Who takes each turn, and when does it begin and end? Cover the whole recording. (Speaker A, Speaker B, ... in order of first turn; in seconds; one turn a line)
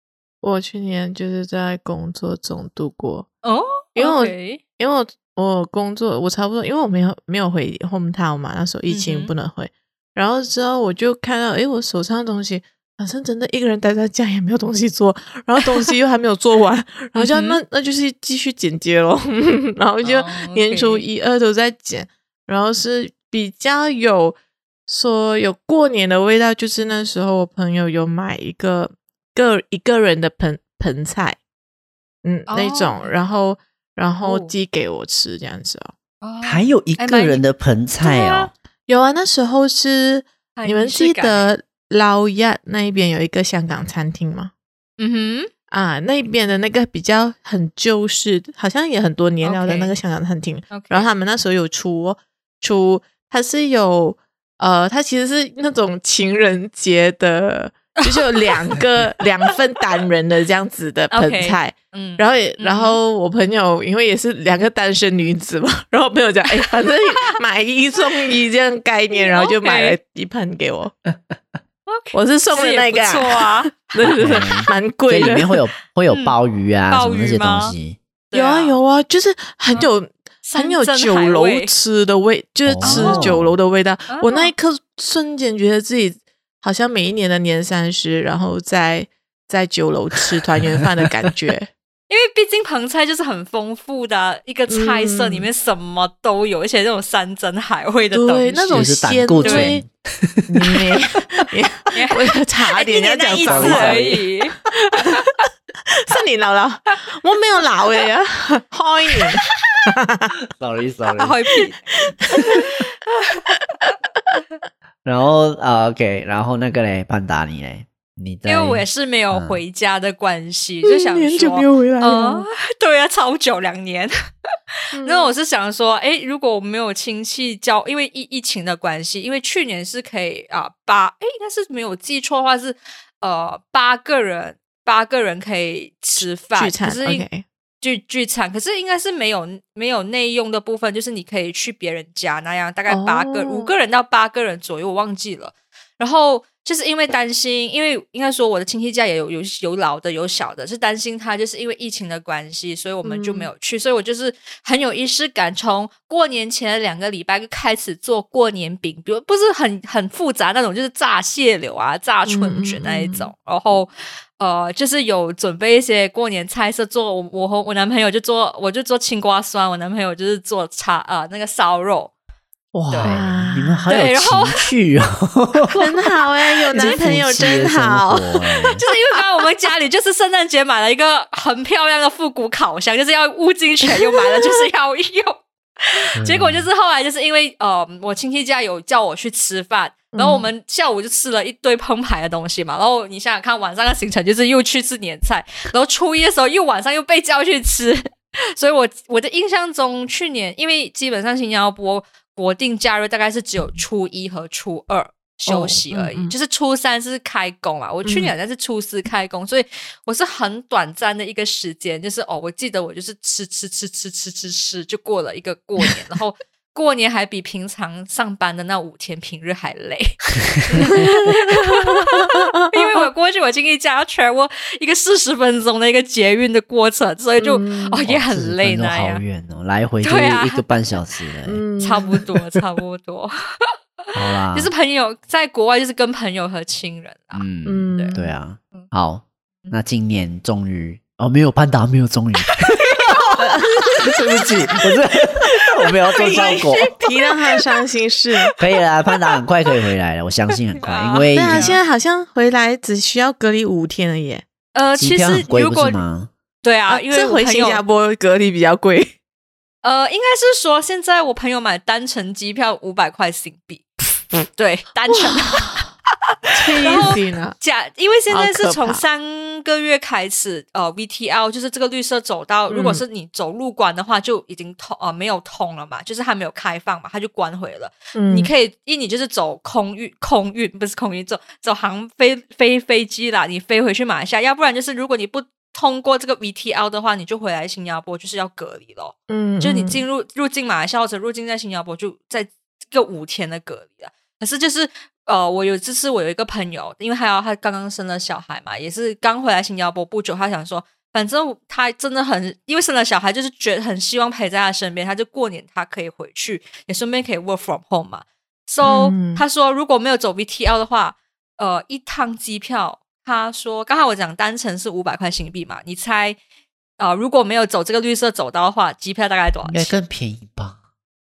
Speaker A: 0.4-3.3
Speaker B: 3.4-4.6
Speaker A: 4.0-31.4
Speaker B: 8.9-9.3
Speaker B: 17.2-17.6
Speaker B: 20.0-21.1
Speaker A: 32.2-35.9
Speaker B: 32.5-33.1
Speaker B: 34.2-34.5
Speaker B: 36.2-37.4
Speaker C: 36.4-38.5
Speaker B: 38.0-38.5
Speaker A: 38.9-44.5
Speaker B: 40.5-41.5
Speaker B: 45.0-45.5
Speaker A: 45.7-70.9
Speaker B: 49.4-50.0
Speaker B: 50.7-51.1
Speaker B: 58.0-58.7
Speaker B: 61.1-63.0
Speaker B: 69.1-70.0
Speaker B: 71.9-74.3
Speaker A: 72.1-75.5
Speaker C: 74.0-78.0
Speaker B: 76.1-76.3
Speaker B: 76.9-77.8
Speaker B: 78.3-78.8
Speaker A: 78.3-91.7
Speaker B: 80.4-81.7
Speaker C: 82.7-83.5
Speaker B: 82.8-83.3
Speaker B: 84.1-84.5
Speaker B: 92.1-99.8
Speaker A: 94.7-95.5
Speaker A: 98.1-99.8
Speaker C: 98.7-100.5
Speaker A: 100.5-110.3
Speaker B: 101.9-105.2
Speaker C: 103.5-104.2
Speaker C: 110.5-111.4
Speaker B: 111.2-113.4
Speaker A: 111.6-112.9
Speaker C: 115.0-119.6
Speaker B: 118.5-124.1
Speaker A: 120.8-122.5
Speaker A: 124.9-125.3
Speaker B: 124.9-137.2
Speaker A: 136.2-137.4
Speaker B: 137.8-172.1
Speaker A: 142.9-143.7
Speaker A: 153.0-153.5
Speaker A: 162.3-163.3
Speaker C: 172.7-175.9
Speaker B: 172.9-173.2
Speaker A: 173.1-174.0
Speaker B: 173.9-174.6
Speaker A: 175.8-178.9
Speaker C: 176.7-178.8
Speaker B: 176.8-177.7
Speaker B: 178.8-229.2
Speaker C: 186.2-186.7
Speaker A: 190.1-190.5
Speaker A: 205.5-206.3
Speaker A: 208.0-208.3
Speaker A: 221.0-223.1
Speaker A: 227.4-228.0
Speaker C: 228.0-231.6
Speaker B: 230.0-230.6
Speaker A: 231.5-232.2
Speaker B: 231.8-233.7
Speaker C: 234.2-234.7
Speaker B: 234.5-238.2
Speaker C: 237.3-243.1
Speaker A: 237.7-238.3
Speaker B: 242.5-244.7
Speaker C: 244.0-246.9
Speaker A: 246.2-248.5
Speaker B: 246.2-247.6
Speaker C: 248.6-251.8
Speaker B: 250.8-251.8
Speaker A: 251.3-254.4
Speaker B: 254.7-256.0
Speaker C: 254.9-256.3
Speaker B: 256.6-257.8
Speaker A: 256.9-259.1
Speaker B: 259.8-263.9
Speaker B: 264.5-265.8
Speaker A: 265.1-265.9
Speaker A: 266.5-267.6
Speaker B: 266.8-316.4
Speaker A: 268.3-269.0
Speaker A: 272.7-273.0
Speaker A: 278.1-278.5
Speaker A: 289.3-290.0
Speaker A: 308.8-309.4
Speaker B: 317.0-319.9
Speaker C: 319.7-320.8